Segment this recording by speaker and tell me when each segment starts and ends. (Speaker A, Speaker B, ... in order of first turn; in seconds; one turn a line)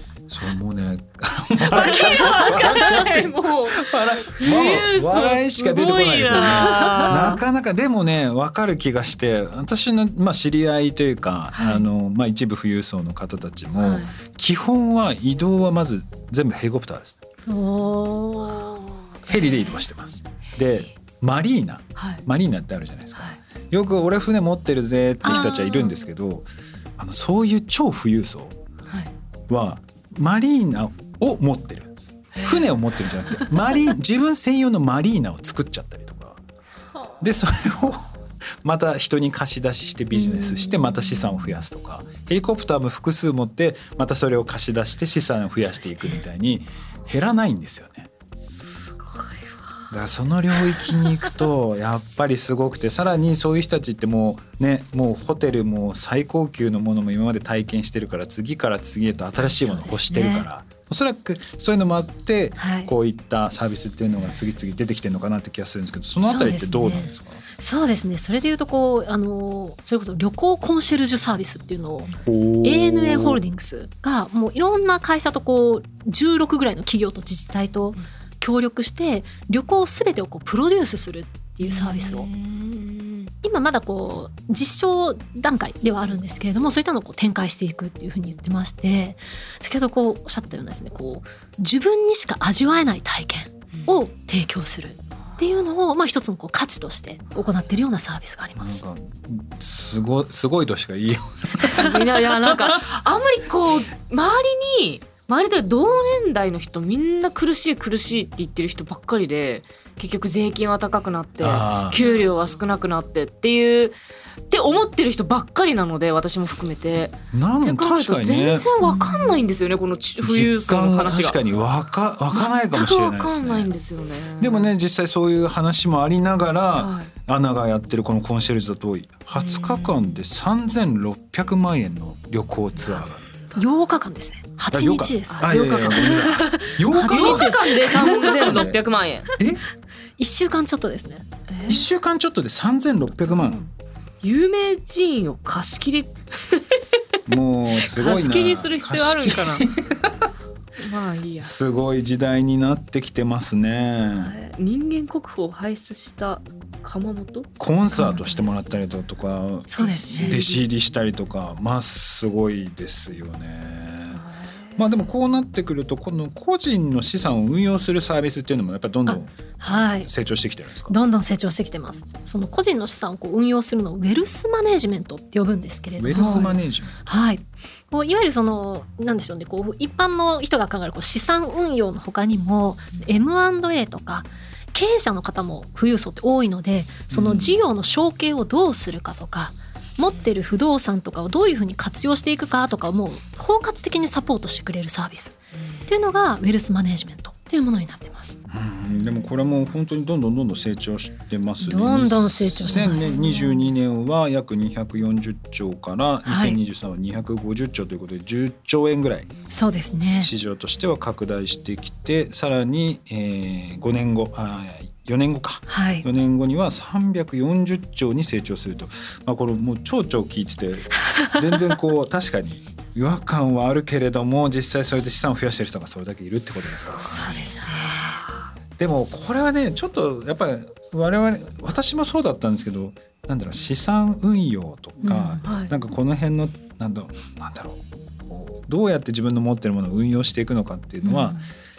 Speaker A: 0.3-17.2
Speaker B: 1.7-7.4
Speaker C: 6.7-7.1
Speaker B: 11.5-11.9
Speaker B: 13.8-14.1
Speaker C: 17.4-18.8
Speaker A: 19.3-28.6
Speaker B: 21.9-22.2
Speaker B: 25.2-25.9
Speaker A: 29.5-36.4
Speaker B: 32.4-32.7
Speaker A: 37.2-38.1
Speaker A: 38.6-48.1
Speaker B: 40.1-40.8
Speaker B: 48.4-49.2
Speaker A: 49.9-67.4
Speaker C: 59.4-60.5
Speaker C: 62.6-62.9
Speaker C: 66.2-82.3
Speaker A: 72.2-73.4
Speaker B: 81.6-83.3
Speaker C: 83.4-98.8
Speaker A: 98.6-102.8
Speaker B: 101.7-114.0
Speaker A: 111.4-112.0
Speaker B: 114.5-121.4
Speaker A: 117.3-119.0
Speaker A: 120.2-123.7
Speaker B: 122.3-124.7
Speaker A: 124.4-133.2
Speaker B: 126.8-127.1
Speaker B: 129.3-130.2
Speaker B: 132.8-133.7
Speaker C: 133.5-138.7
Speaker A: 134.7-138.8
Speaker B: 135.3-139.3
Speaker A: 139.4-139.6
Speaker C: 140.2-141.2
Speaker B: 141.5-141.8
Speaker A: 141.7-143.6
Speaker B: 143.3-143.7
Speaker B: 144.2-146.6
Speaker A: 147.3-150.3
Speaker B: 147.8-149.7
Speaker B: 150.8-151.5
Speaker A: 151.4-154.3
Speaker B: 154.2-157.5
Speaker A: 157.6-164.2
Speaker C: 157.9-158.5
Speaker C: 159.7-160.4
Speaker B: 159.9-160.6
Speaker B: 164.2-164.4
Speaker A: 164.8-170.9
Speaker C: 169.1-170.1
Speaker C: 170.9-198.4
Speaker A: 176.0-176.9
Speaker B: 176.1-176.5
Speaker A: 187.1-187.6
Speaker A: 198.5-209.3
Speaker C: 201.6-203.8
Speaker C: 206.2-206.6
Speaker C: 209.5-210.3
Speaker A: 210.0-227.4
Speaker C: 215.7-216.0
Speaker C: 226.9-228.2
Speaker B: 227.2-228.3
Speaker A: 228.8-241.4
Speaker C: 235.0-235.4
Speaker B: 235.4-235.7
Speaker C: 241.0-241.3